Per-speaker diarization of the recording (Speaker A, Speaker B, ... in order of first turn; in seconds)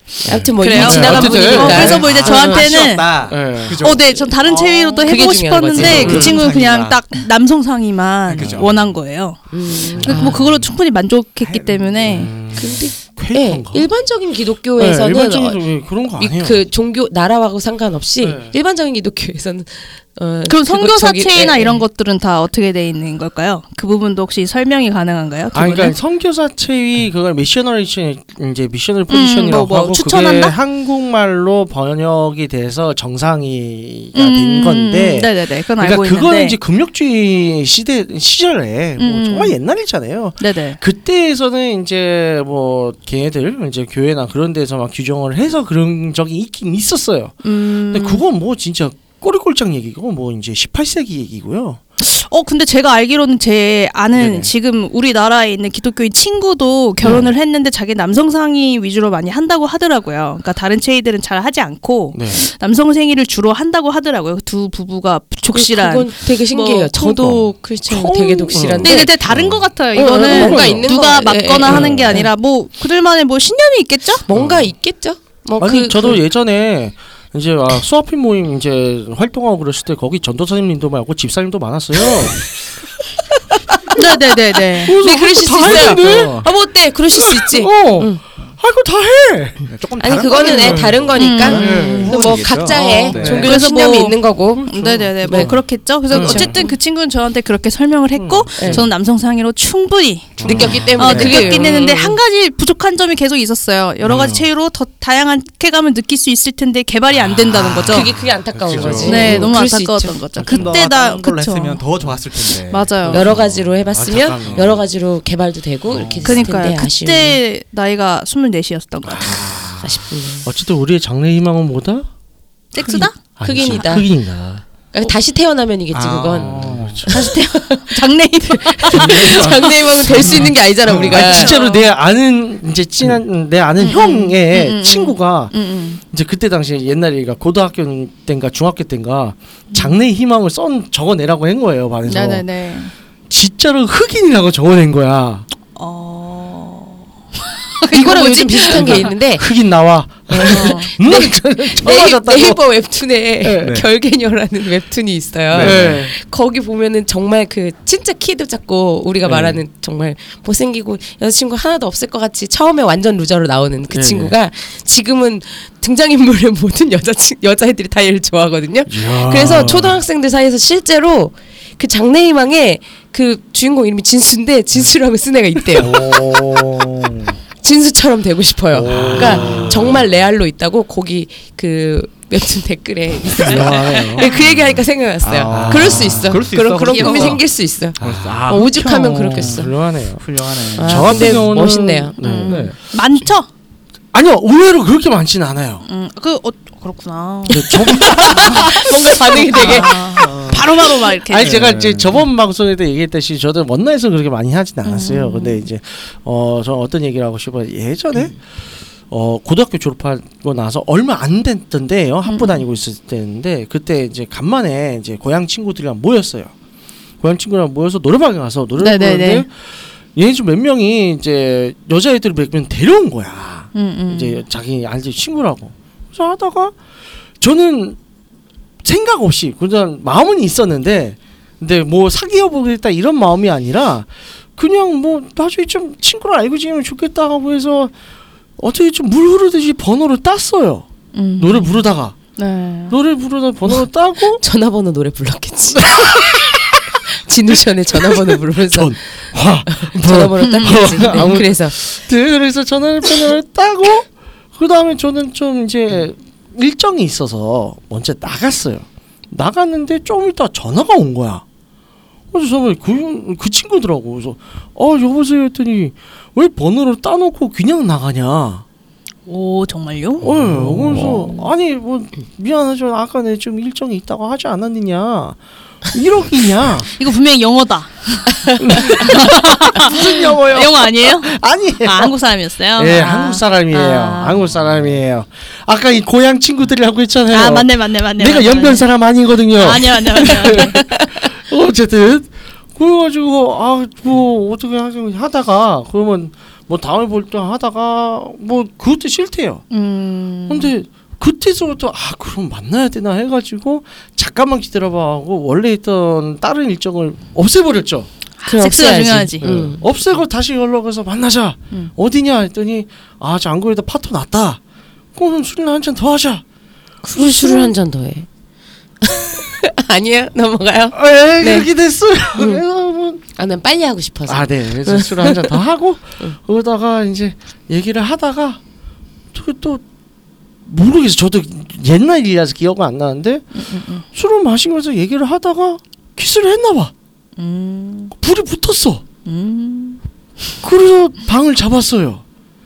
Speaker A: 0.2-2.1, 3.3-3.8, 5.8-6.4, 8.3-8.7, 9.9-10.5, 12.0-13.9, 14.8-16.6, 18.2-18.6, 25.5-51.8, 54.1-54.5, 62.1-62.5, 67.8-70.9, 71.6-72.2, 74.3-74.7, 75.6-82.5, 84.8-86.5, 87.1-89.7, 90.3-93.6, 95.3-96.7, 98.1-98.9, 100.4-101.5, 104.0-104.5, 108.0-109.5, 110.4-110.7, 113.1-114.8, 119.0-122.1, 122.8-124.6, 126.3-127.3, 130.1-135.5, 136.1-142.4, 143.3-145.5, 148.6-152.6, 153.4-153.8, 155.5-156.1, 159.2-159.6, 163.9-164.3, 168.9-170.0, 178.8-180.0, 183.4-184.3, 185.5-186.4, 188.0-192.8, 194.1-195.8, 197.5-198.7, 199.4-199.9, 201.3-208.4, 209.1-216.5, 217.2-226.7, 227.4-228.0, 228.8-237.9, 238.6-240.9, 241.4-242.2, 242.9-244.4, 245.8-246.5, 247.9-261.4, 262.3-268.6, 270.2-276.9, 278.6-282.1, 282.8-299.6, 300.5-308.1, 309.4-314.6, 315.1-316.4, 317.2-317.6, 320.9-323.2, 324.3-328.6, 329.3-329.8, 330.6-336.9, 338.1-339.0, 340.6-342.2
Speaker B: 0.2-2.7, 5.0-6.4, 9.5-10.4, 12.5-21.8, 65.5-69.1, 69.9-72.3, 74.2-76.2, 83.7-84.0, 84.8-88.2, 90.0-95.6, 96.1-96.8, 98.6-98.8, 100.4-102.2, 107.8-110.3, 113.1-117.4, 119.8-120.5, 123.4-124.1, 124.9-126.6, 127.1-131.5, 147.9-149.5, 150.3-176.4, 177.6-189.7, 190.7-192.2, 198.5-200.3, 244.4-246.3, 247.1-249.0, 249.7-251.8, 308.4-309.8, 317.0-318.3, 319.0-321.7, 322.3-322.6, 323.4-325.6
Speaker C: 0.6-3.1, 3.7-12.3, 20.5-26.0, 29.1-30.5, 34.1-36.6, 39.0-39.5, 40.4-40.8, 47.4-48.2, 52.0-67.4, 68.8-74.2, 83.9-85.0, 91.2-92.1, 92.7-108.1, 109.0-111.8, 112.5-113.2, 116.2-119.5, 122.7-123.2, 127.1-129.7, 131.0-131.9, 133.8-136.0, 139.7-140.0, 142.1-142.9, 145.7-147.1, 147.7-149.1, 150.5-150.9, 186.8-187.4, 192.2-193.5, 195.8-201.7, 204.8-205.6, 212.2-212.5, 218.8-219.4, 223.7-224.4, 241.1-241.8, 242.3-243.0, 250.4-251.4, 269.3-270.3, 276.9-284.4, 287.3-288.9, 289.5-290.9, 299.7-300.7, 308.4-309.5, 317.4-317.7, 333.5-334.0, 337.4-338.1, 339.2-340.0
Speaker D: 1.0-7.0, 8.3-8.7, 11.4-12.3, 89.7-93.6, 100.5-101.7, 107.1-109.5, 110.4-113.4, 114.3-114.7, 115.9-116.5, 119.2-120.0, 125.9-127.3, 128.9-131.4, 153.6-153.9, 155.5-156.0, 175.7-177.4, 178.7-180.0, 183.4-184.7, 185.2-187.4, 188.0-191.5, 197.9-198.7, 200.2-200.6, 201.3-202.2, 270.2-271.4